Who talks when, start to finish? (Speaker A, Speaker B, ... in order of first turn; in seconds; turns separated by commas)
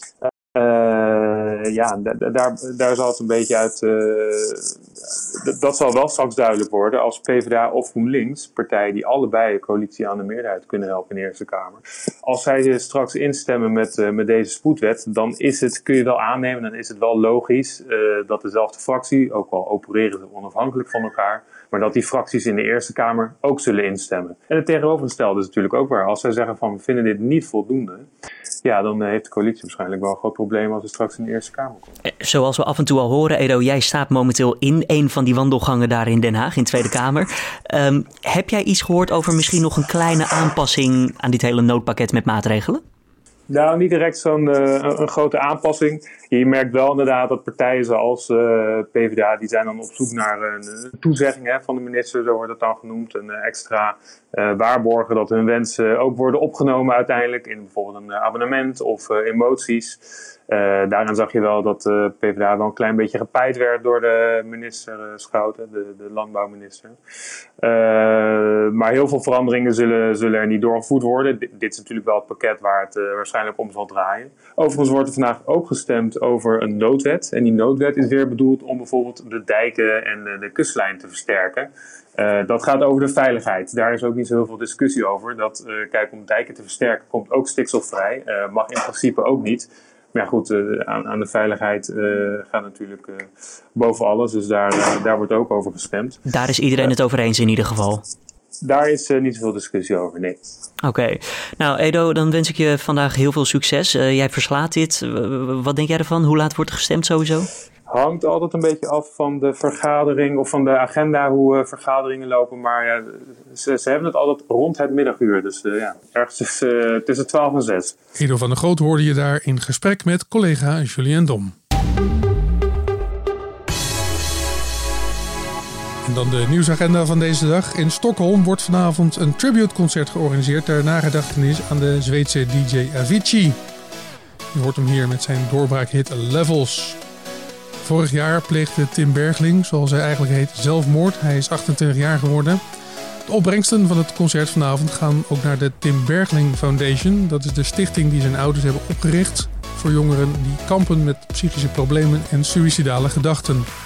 Speaker A: 0.2-28.1, Speaker A: 28.6-31.9, Speaker B: 32.1-42.8, Speaker A: 43.5-67.0, Speaker A: 67.6-96.2, Speaker B: 96.2-98.0, Speaker A: 98.6-100.4, Speaker B: 100.8-107.5, Speaker A: 107.9-117.9, Speaker C: 118.2-121.5, Speaker C: 126.0-133.6, Speaker C: 134.5-137.0, Speaker C: 137.8-142.6, Speaker C: 143.3-153.7